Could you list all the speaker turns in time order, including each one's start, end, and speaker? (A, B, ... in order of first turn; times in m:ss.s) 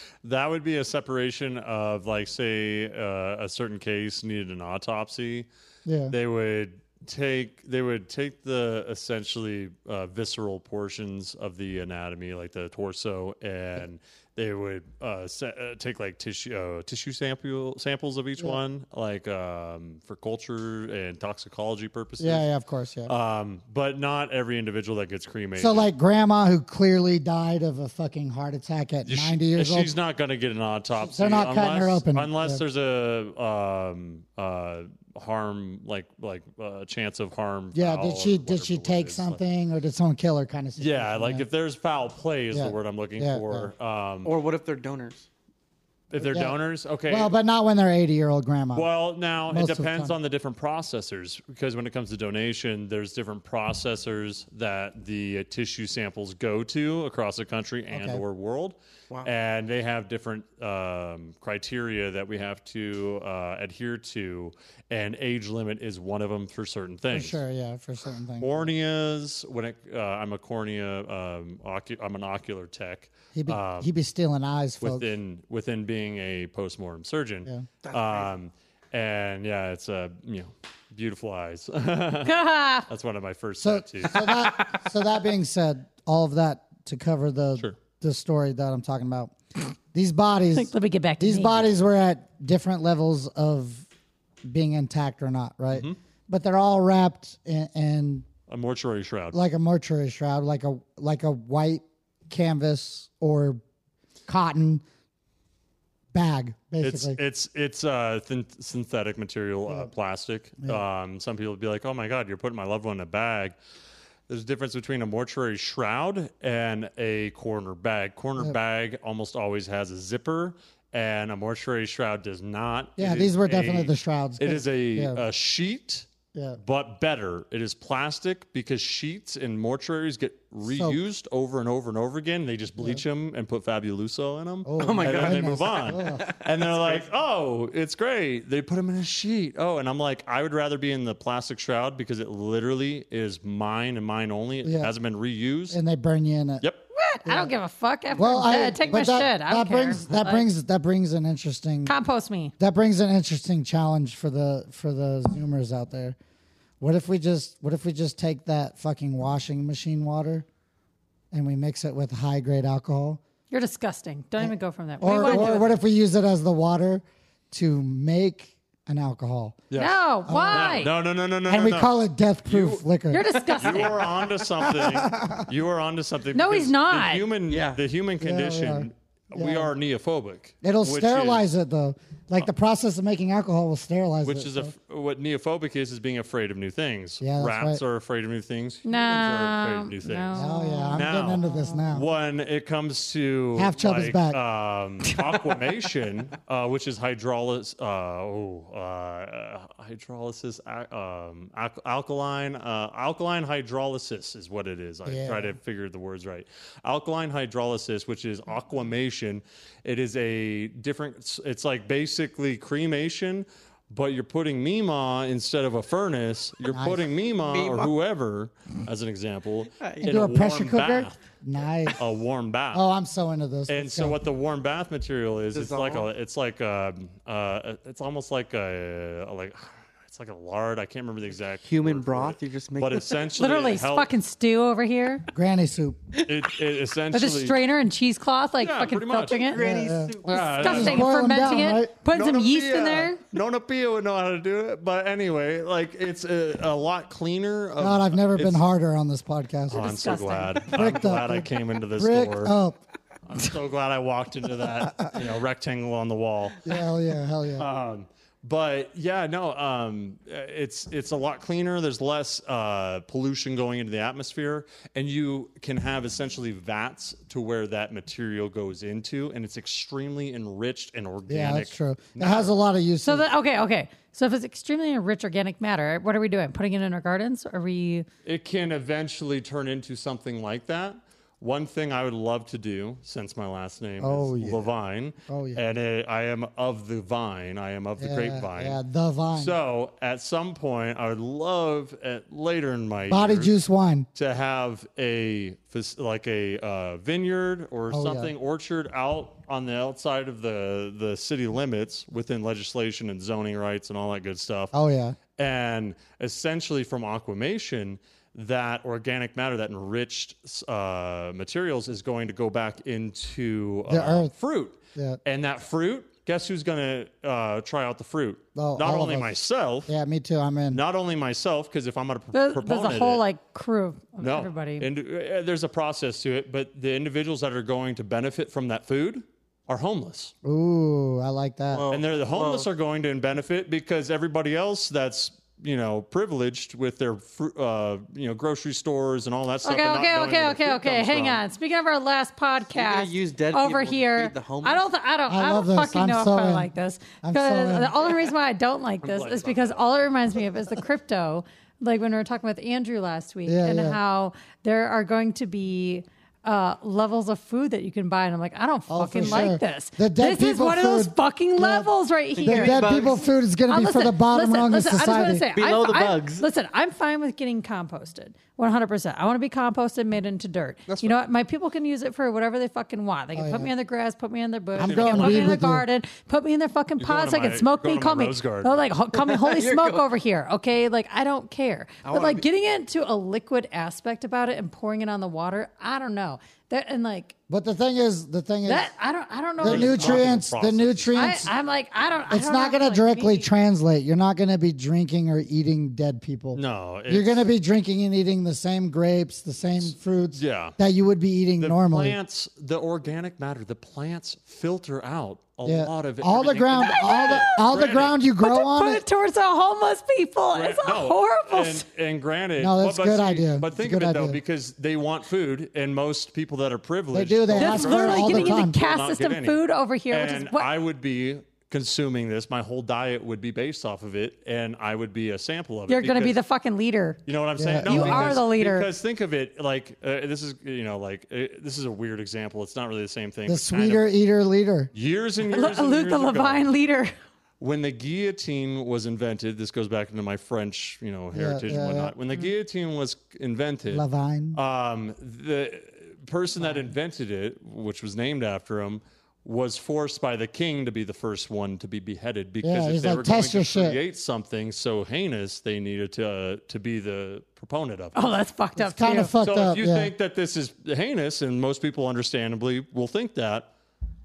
0:00.2-0:05.5 A
0:05.8-0:06.2 B
0:06.1-0:22.5 A
0:22.2-0:23.1 B
0:23.1-0:25.9 A
0:25.6-0:29.9 B
0:29.0-0:39.4 A
0:31.0-0:32.6 B
0:37.7-0:41.4 B
0:40.8-0:44.3 A
0:42.5-0:43.7 B
0:44.2-0:45.3 C
0:46.1-0:47.4 A
0:46.2-0:46.6 B
0:47.1-0:48.9 B
0:48.7-1:07.4 A
0:49.5-0:50.2 B
0:57.9-0:58.2 B
1:07.1-1:08.7 B
1:08.4-1:13.9 A
1:13.3-1:15.1 B
1:14.8-1:24.4 A
1:17.8-1:18.3 C
1:22.2-1:22.9 D
1:23.6-1:29.3 B
1:29.9-1:33.9 B
1:30.5-1:31.7 D
1:34.4-1:38.3 B
1:38.5-1:39.4 A
1:39.3-1:43.6 B
1:44.3-1:44.8 B
1:46.1-1:47.2 B
1:46.8-1:53.6 A
1:54.3-2:06.1 A
2:03.0-2:05.2 B
2:06.3-2:06.6 B
2:06.6-2:25.8 A
2:10.7-2:11.0 B
2:12.8-2:13.0 B
2:14.6-2:16.3 B
2:14.8-2:17.0 C
2:24.6-2:24.9 B
2:25.7-2:26.6 B
2:27.0-2:30.4 D
2:28.2-2:31.9 B
2:31.9-2:32.5 D
2:32.6-2:36.2 B
2:36.8-2:40.5 B
2:41.3-2:43.2 B
2:43.5-2:45.7 D
2:44.4-2:49.6 B
2:45.1-2:45.5 A
2:49.7-2:52.8 A
2:49.8-2:50.9 D
2:50.3-2:50.8 B
2:51.5-2:54.0 B
2:53.1-2:54.0 D
2:53.5-3:01.5 A
2:54.6-2:55.5 B
2:56.3-2:57.2 D
2:57.5-2:57.8 C
2:58.2-2:59.7 B
3:00.6-3:04.7 B
3:04.2-3:41.2 A
3:07.2-3:07.8 B
3:08.8-3:11.8 D
3:10.4-3:12.1 B
3:13.6-3:14.4 B
3:25.1-3:25.6 B
3:36.7-3:37.0 B
3:37.5-3:37.9 C
3:39.8-3:40.2 C
3:40.0-3:42.0 B
3:41.9-3:42.8 A
3:42.7-3:44.2 B
3:43.7-3:54.1 A
3:45.5-3:46.1 C
3:51.6-3:53.2 C
3:53.4-3:55.3 D
3:55.3-3:56.0 B
3:56.2-3:57.6 A
3:57.1-3:59.6 D
3:58.6-3:59.5 A
3:59.3-4:01.0 C
3:59.6-4:01.9 B
4:00.2-4:01.1 A
4:00.4-4:03.2 D
4:02.1-4:08.6 A
4:07.8-4:09.9 B
4:09.7-4:12.6 A
4:09.8-4:10.7 D
4:10.7-4:12.8 B
4:13.3-4:16.7 A
4:14.9-4:15.2 B
4:16.6-4:17.7 B
4:17.6-4:32.5 A
4:31.3-4:33.3 B
4:33.0-4:38.1 D
4:38.2-4:48.8 A
4:44.0-4:44.7 B
4:45.3-4:45.6 B
4:48.0-4:49.6 B
4:49.3-4:53.5 A
4:53.1-4:54.1 B
4:54.2-5:04.7 A
4:57.9-4:58.3 B
5:04.7-5:05.2 B
5:05.4-5:19.9 A
5:13.9-5:14.3 B
5:15.0-5:15.2 B
5:18.6-5:19.3 B
5:19.9-5:20.8 B
5:20.7-5:23.2 A
5:22.3-5:24.9 D
5:24.2-5:30.3 A
5:30.4-5:31.9 B
5:31.7-5:32.7 C
5:31.9-5:41.4 A
5:39.6-6:27.3 D
5:42.7-5:44.8 C
5:45.3-5:46.7 B
5:47.2-5:48.0 B
5:49.0-5:49.8 A
5:53.5-5:54.0 B
5:58.9-6:01.9 B
6:02.4-6:03.2 C
6:02.4-6:05.5 B
6:05.5-6:06.5 C
6:10.9-6:11.2 C
6:13.3-6:13.7 B
6:14.8-6:15.8 B
6:14.8-6:15.6 A
6:17.0-6:18.8 A
6:19.1-6:20.1 C
6:22.0-6:22.5 C
6:27.5-6:28.9 B
6:28.6-6:30.2 D
6:29.6-6:31.5 B
6:29.6-6:31.3 A
6:31.1-6:33.5 D
6:32.3-6:42.2 B
6:36.5-6:37.5 A
6:39.8-6:40.8 A
6:41.6-6:48.2 A
6:45.6-6:49.0 B
6:46.8-6:47.7 D
6:48.4-6:51.8 D
6:50.5-7:06.4 A
6:52.6-6:54.4 B
6:57.1-6:58.8 B
6:57.6-7:00.7 D
7:05.9-7:07.2 D
7:07.3-7:14.1 A
7:07.6-7:08.4 B
7:07.8-7:08.9 D
7:13.5-7:14.9 B
7:14.9-7:16.7 A
7:15.5-7:17.1 D
7:17.6-7:38.3 A
7:21.3-7:22.1 B
7:23.9-7:24.6 B
7:32.6-7:34.0 B
7:38.2-7:39.3 D
7:38.8-7:40.1 B
7:39.4-7:43.7 A